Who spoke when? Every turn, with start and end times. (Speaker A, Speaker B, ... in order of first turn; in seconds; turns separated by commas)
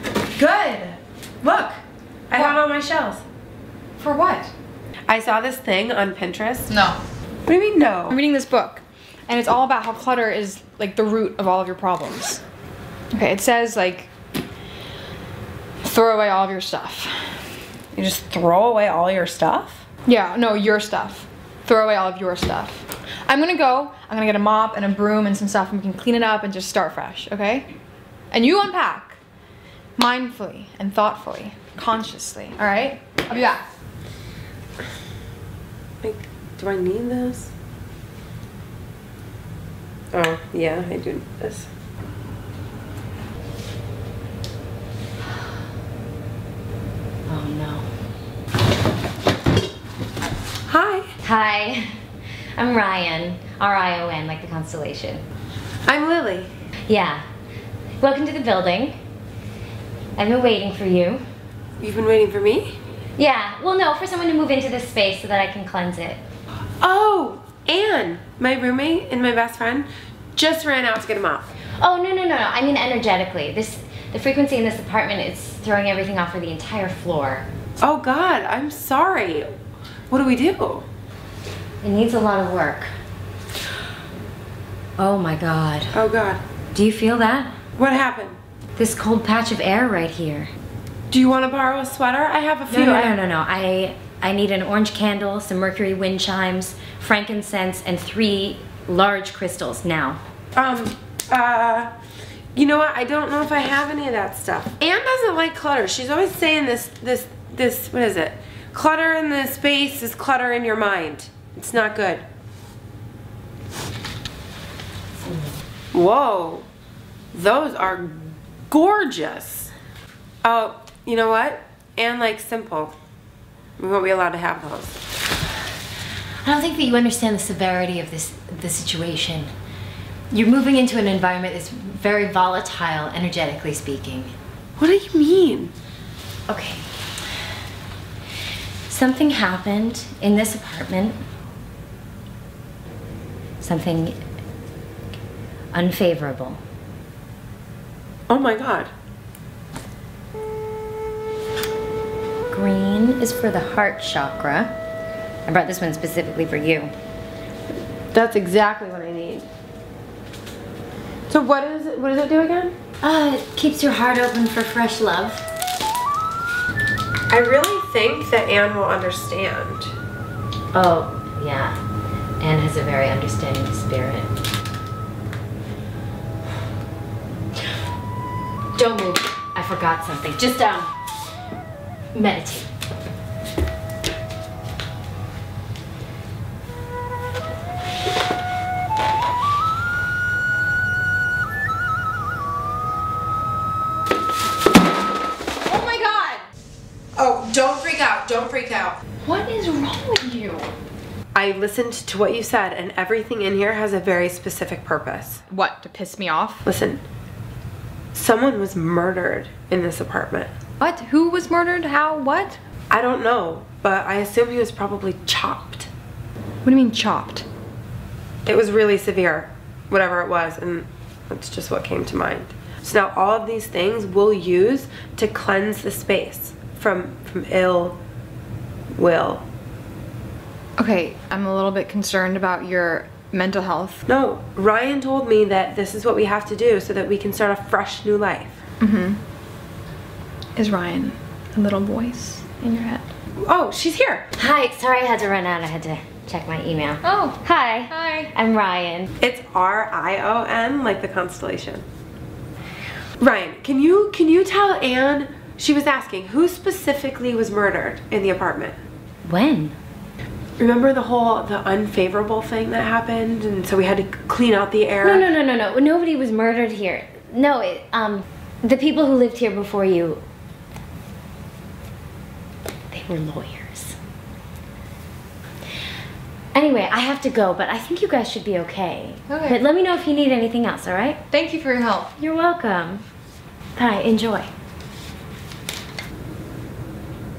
Speaker A: 0.4-3.2, Speaker B: 4.0-4.5, Speaker A: 5.1-6.7, Speaker B: 6.7-7.0, Speaker A: 7.5-8.2, Speaker B: 8.1-12.4, Speaker B: 13.1-14.1, Speaker B: 15.8-17.2, Speaker A: 17.9-19.8, Speaker B: 20.0-27.7, Speaker B: 28.3-29.2, Speaker B: 30.0-33.6, Speaker A: 36.0-37.5, Speaker A: 40.1-41.7, Speaker C: 47.3-47.9, Speaker A: 50.7-51.1, Speaker C: 51.2-51.9, Speaker C: 52.5-55.2, Speaker A: 55.8-56.5, Speaker C: 56.9-57.2, Speaker C: 58.0-59.0, Speaker C: 60.1-61.2, Speaker A: 61.8-62.8, Speaker C: 63.2-66.2, Speaker A: 66.8-71.5, Speaker C: 71.8-77.5, Speaker A: 77.8-79.5, Speaker A: 80.1-80.8, Speaker C: 81.8-82.9, Speaker C: 85.0-86.0, Speaker A: 85.9-86.4, Speaker C: 86.7-87.5, Speaker A: 87.8-88.4, Speaker C: 88.8-90.5, Speaker A: 91.1-93.2, Speaker C: 92.7-100.2, Speaker A: 100.5-101.9, Speaker A: 102.5-112.2, Speaker A: 115.9-116.7, Speaker A: 117.3-119.7, Speaker A: 120.4-122.9, Speaker A: 123.8-125.0, Speaker C: 126.4-129.5, Speaker C: 130.3-134.3, Speaker A: 134.8-135.7, Speaker C: 136.5-136.9, Speaker C: 138.9-141.2, Speaker C: 143.6-144.2, Speaker C: 145.7-146.6, Speaker A: 148.3-148.9, Speaker C: 152.5-154.7, Speaker C: 155.4-156.9, Speaker A: 158.1-159.5, Speaker A: 161.3-162.8, Speaker C: 163.0-165.4, Speaker A: 167.3-169.9, Speaker C: 170.7-171.8, Speaker C: 172.4-174.3, Speaker C: 178.7-180.9, Speaker C: 182.1-182.7, Speaker B: 195.6-196.4, Speaker B: 197.2-200.7, Speaker A: 201.3-205.4, Speaker B: 205.5-206.6, Speaker A: 206.6-207.0, Speaker A: 208.1-210.5, Speaker B: 210.8-212.6, Speaker A: 212.9-215.9, Speaker B: 216.6-217.4, Speaker A: 218.4-228.0, Speaker A: 228.9-229.4, Speaker B: 230.8-234.0, Speaker A: 234.1-238.6, Speaker B: 238.8-239.2, Speaker B: 240.6-243.1, Speaker A: 243.4-244.3, Speaker C: 244.3-249.1, Speaker B: 247.0-248.3, Speaker A: 249.2-251.8, Speaker A: 253.2-258.7, Speaker C: 259.2-259.8, Speaker A: 260.6-265.2, Speaker C: 265.0-270.2, Speaker C: 272.9-274.0, Speaker C: 276.5-281.2, Speaker B: 279.3-279.6, Speaker B: 281.3-282.1, Speaker C: 282.2-283.0, Speaker C: 283.8-284.5